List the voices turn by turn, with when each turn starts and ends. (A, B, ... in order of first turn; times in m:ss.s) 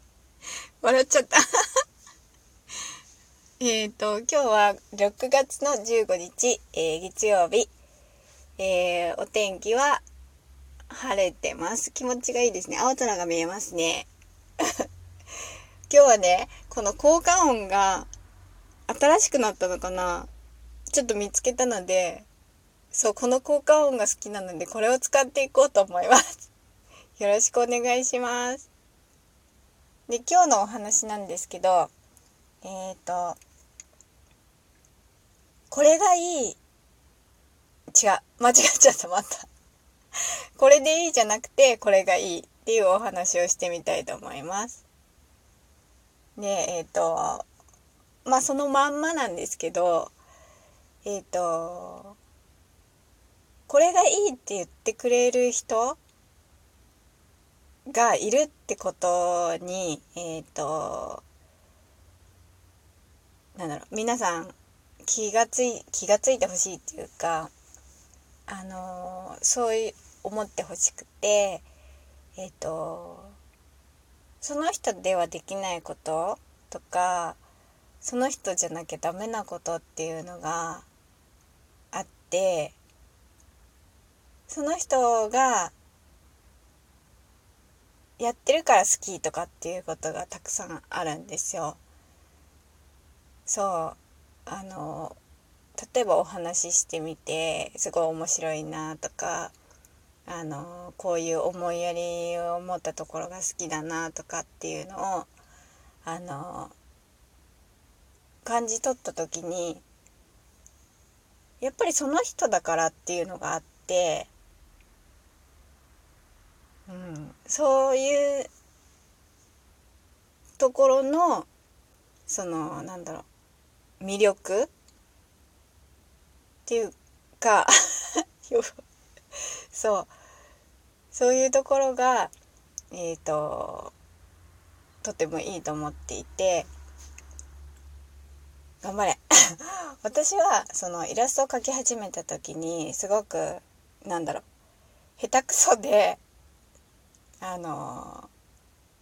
0:00.8-0:01.8 A
0:03.6-0:07.7 A
0:08.6-0:10.0 A
0:10.9-0:14.1 A
0:15.9-0:18.1 A
0:18.9-0:20.3 A
0:20.9-0:22.3 A
0:22.9-0:26.5 A
0:27.2-0:28.7 A
0:30.1-0:31.9 A
0:32.6-0:33.4 A
0:35.7-0:36.6 A
0:37.9-0:39.5 A
0:40.6-0:44.8 A
0:46.4-0:47.4 A
0:48.2-0:50.1 A
0:51.0-0:52.2 A
0:53.7-0:56.0 A
0:57.9-1:01.2 A
1:03.5-1:07.5 A
1:08.5-1:11.6 A
1:12.4-1:13.4 A
1:14.4-1:17.4 A
1:18.0-1:20.9 A
1:21.9-1:22.8 A
1:24.5-1:25.7 A
1:28.2-1:31.8 A
1:33.5-1:35.2 A
1:35.8-1:39.5 A
1:40.3-1:45.3 A
1:46.0-1:46.7 A
1:48.4-1:49.8 A
1:51.6-1:54.3 A
1:56.9-1:58.5 A
2:00.6-2:01.5 A
2:02.3-2:03.3 A
2:04.0-2:04.7 A
2:06.7-2:08.8 A
2:09.4-2:10.1 A
2:11.1-2:12.3 A
2:12.9-2:13.9 A
2:15.0-2:16.7 A
2:18.8-2:24.4 A
2:25.2-2:26.2 A
2:27.4-2:28.3 A